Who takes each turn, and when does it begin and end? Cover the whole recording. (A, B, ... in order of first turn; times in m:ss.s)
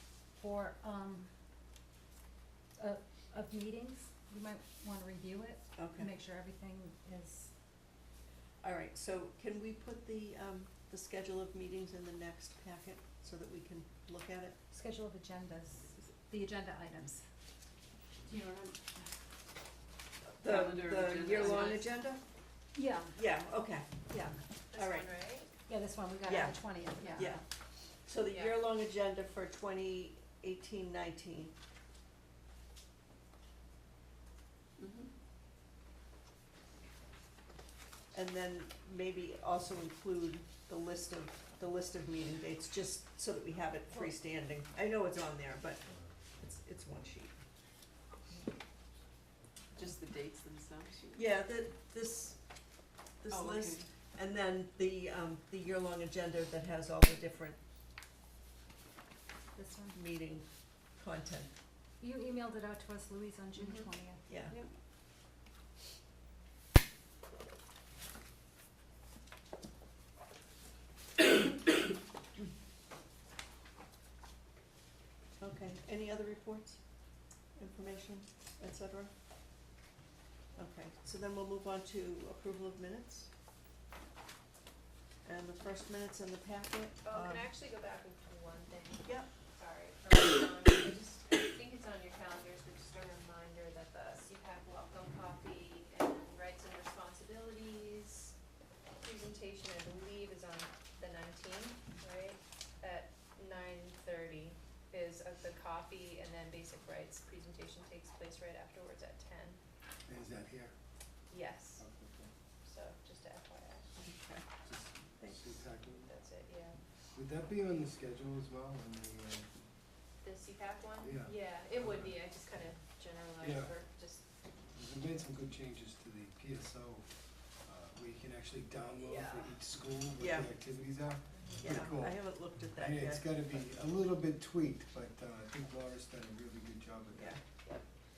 0:00.4-0:01.3 A
0:02.8-0:07.5 A
0:05.8-0:06.1 B
0:08.6-0:14.6 B
0:14.7-0:17.2 A
0:18.3-0:19.0 A
0:20.4-0:22.2 B
0:20.4-0:21.9 C
0:21.4-0:21.8 D
0:22.8-0:23.2 A
0:23.1-0:24.0 B
0:24.1-0:24.4 A
0:24.7-0:25.5 D
0:24.7-0:25.1 B
0:25.7-0:27.4 A
0:26.3-0:26.6 B
0:27.1-0:27.4 C
0:27.2-0:27.4 B
0:28.0-0:31.5 B
0:28.3-0:28.6 D
0:38.1-0:45.8 B
0:46.4-0:47.3 B
0:49.7-0:51.3 C
0:51.1-0:52.4 B
0:53.2-0:57.6 B
0:53.3-0:53.8 C
0:59.6-1:00.0 A
0:59.9-1:00.4 B
1:01.0-1:01.5 B
1:02.0-1:04.2 A
1:04.3-1:04.6 B
1:15.4-1:16.8 B
1:17.6-1:19.1 B
1:20.6-1:23.3 B
1:25.2-1:27.5 B
1:27.0-1:38.3 D
1:39.0-1:49.6 D
1:50.1-1:50.7 E
1:51.3-1:51.8 D
1:51.8-1:52.3 E
1:52.6-1:53.9 D
1:54.0-1:54.4 B
1:54.7-1:56.1 E
1:55.2-1:55.5 B
1:56.1-1:56.8 D
1:57.2-1:59.6 E
2:00.2-2:04.2 D
2:01.0-2:01.3 E
2:03.4-2:03.7 E
2:04.8-2:17.4 E
2:09.1-2:09.5 D
2:10.2-2:10.5 B
2:11.4-2:11.6 D
2:11.6-2:13.6 B
2:17.2-2:17.4 B